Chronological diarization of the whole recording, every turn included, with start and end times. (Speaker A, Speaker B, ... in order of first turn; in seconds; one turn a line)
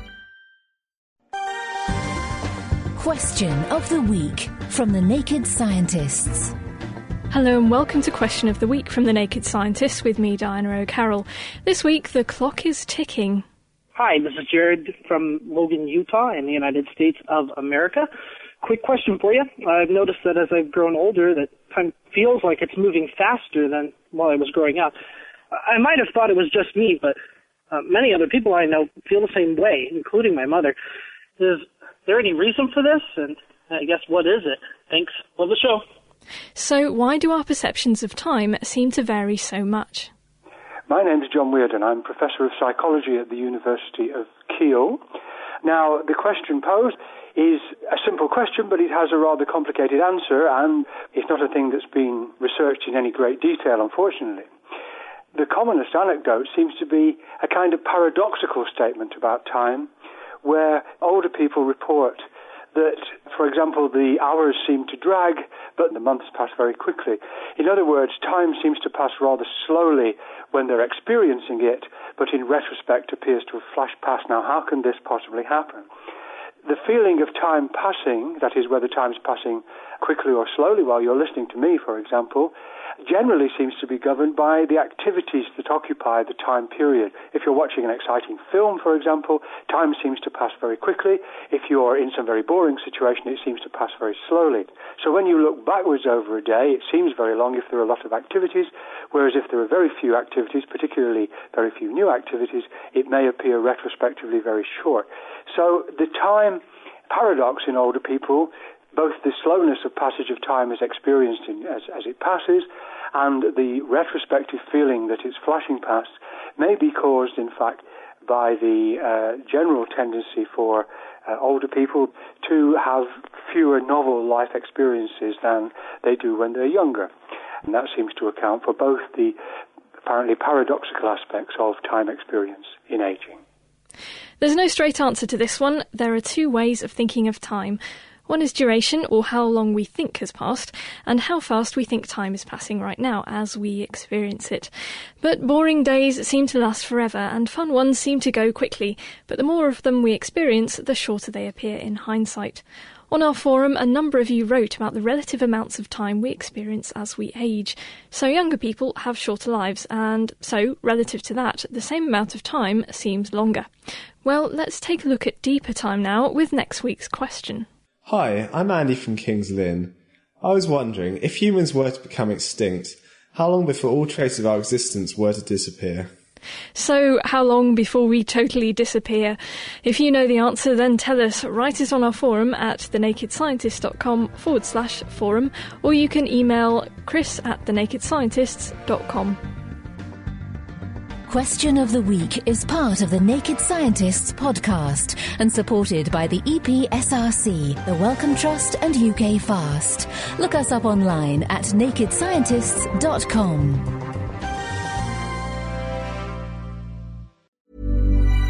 Speaker A: 2.9-6.5
Speaker B: 7.3-13.4
Speaker C: 13.9-18.1
Speaker C: 18.6-24.9
Speaker C: 25.6-27.2
Speaker C: 27.7-30.8
Speaker C: 31.4-35.8
Speaker B: 36.5-40.1
Speaker D: 40.9-45.0
Speaker D: 45.6-54.5
Speaker D: 55.3-59.9
Speaker D: 60.4-75.9
Speaker D: 76.6-82.5
Speaker D: 83.0-127.1
Speaker D: 127.6-129.4
Speaker D: 130.0-133.4
Speaker B: 134.4-163.7
Speaker B: 164.2-167.7
Speaker E: 168.0-176.1
Speaker B: 176.7-189.4
Speaker A: 191.3-204.0